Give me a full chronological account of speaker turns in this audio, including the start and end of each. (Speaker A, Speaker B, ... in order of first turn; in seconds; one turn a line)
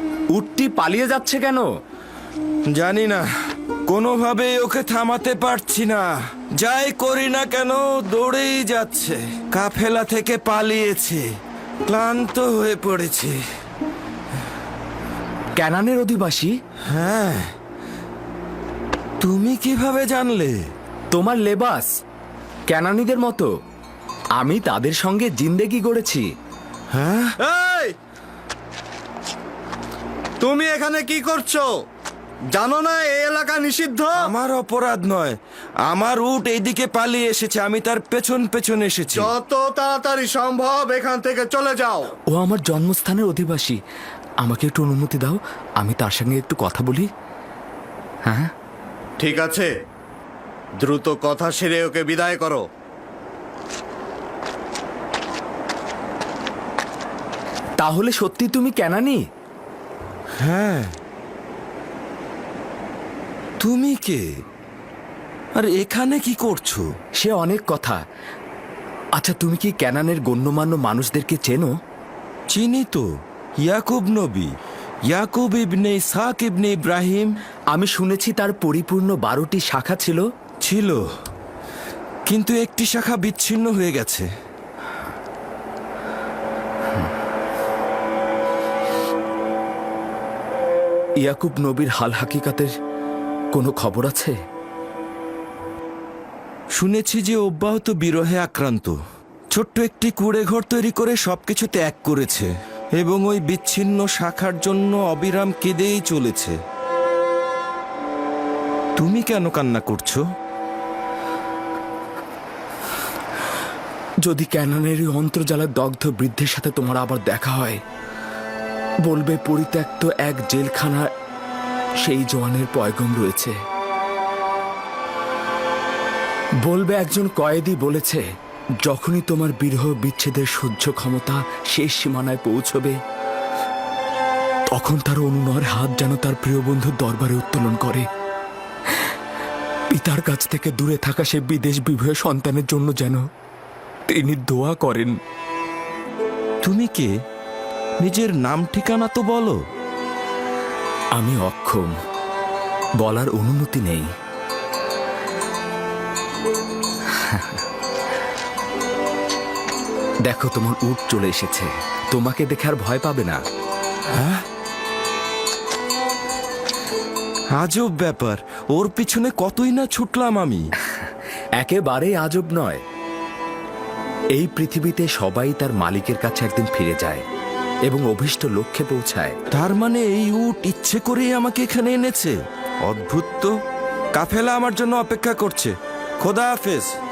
Speaker A: 0.3-1.7
Speaker B: 2.8-3.3
Speaker B: 3.9-6.1
Speaker B: 6.6-11.2
Speaker B: 11.9-13.4
Speaker A: 15.6-16.5
Speaker B: 16.9-17.5
Speaker B: 19.2-20.6
Speaker A: 21.1-21.9
Speaker A: 22.7-23.5
Speaker A: 24.4-26.3
Speaker B: 26.9-27.3
Speaker C: 27.4-27.9
Speaker C: 30.4-31.7
Speaker C: 32.5-34.4
Speaker B: 34.2-35.4
Speaker B: 35.9-39.3
Speaker C: 39.1-42.1
Speaker A: 42.3-43.8
Speaker A: 44.4-47.1
Speaker C: 49.2-49.7
Speaker C: 50.8-52.7
Speaker A: 57.8-59.2
Speaker B: 60.4-60.9
Speaker B: 63.6-64.2
Speaker B: 65.6-66.8
Speaker A: 67.2-68.0
Speaker A: 69.2-71.7
Speaker B: 72.5-73.0
Speaker B: 73.7-74.5
Speaker B: 75.1-77.3
Speaker A: 77.7-80.2
Speaker B: 80.7-81.0
Speaker B: 82.3-84.3
Speaker A: 91.2-92.7
Speaker A: 93.5-94.3
Speaker B: 96.8-99.0
Speaker B: 99.5-102.5
Speaker B: 103.0-106.5
Speaker B: 109.0-110.2
Speaker A: 114.3-117.8
Speaker A: 119.1-121.1
Speaker A: 122.0-123.5
Speaker A: 126.7-128.2
Speaker A: 128.8-133.0
Speaker A: 134.8-138.1
Speaker A: 139.9-143.2
Speaker A: 144.1-145.1
Speaker B: 146.6-147.1
Speaker B: 148.0-149.6
Speaker A: 151.2-151.9
Speaker A: 153.0-154.1
Speaker A: 157.1-157.6
Speaker A: 160.3-163.4
Speaker B: 164.1-164.4
Speaker B: 167.6-170.6
Speaker A: 171.6-172.8
Speaker A: 174.4-177.2
Speaker A: 177.9-179.3
Speaker B: 179.5-182.3
Speaker B: 182.9-183.5
Speaker B: 184.2-186.9